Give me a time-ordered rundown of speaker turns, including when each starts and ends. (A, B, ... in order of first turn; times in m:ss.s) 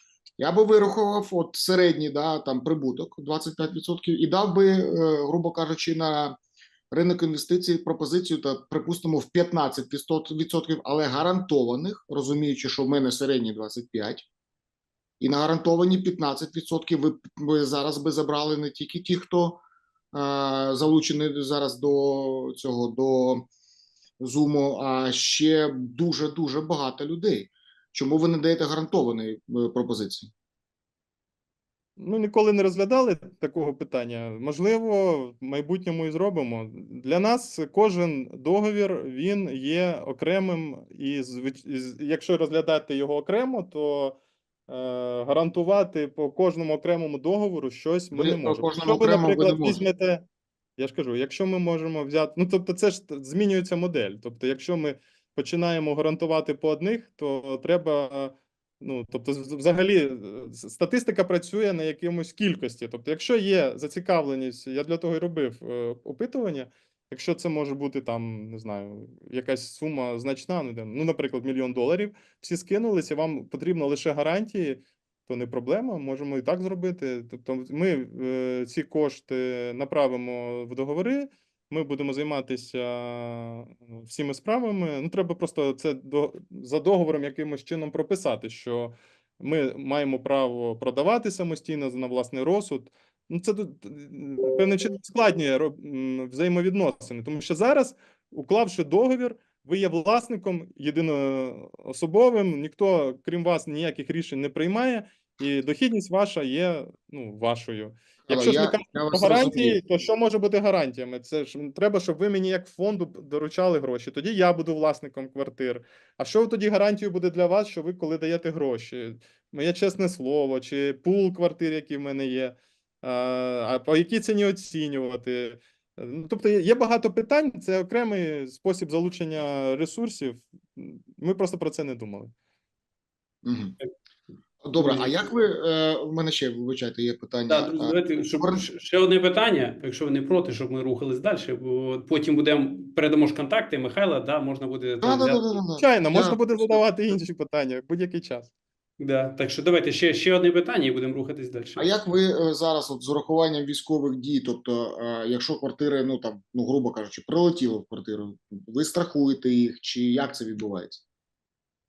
0:00.4-0:06.4 A
0:06.9-0:14.3 A
0:15.2-0:19.6 A
0:20.1-0:23.5 A
0:24.2-0:30.3 A
0:32.0-0:50.2 B
0:48.1-0:49.8 A
0:50.8-2:12.3 B
1:48.3-1:49.8 A
2:13.4-2:13.8 A
2:14.6-2:18.6 A
2:14.8-2:15.2 C
2:17.5-2:25.6 C
2:25.0-2:26.8 A
2:25.8-2:28.5 B
2:29.0-2:31.9 C
2:31.8-2:41.0 A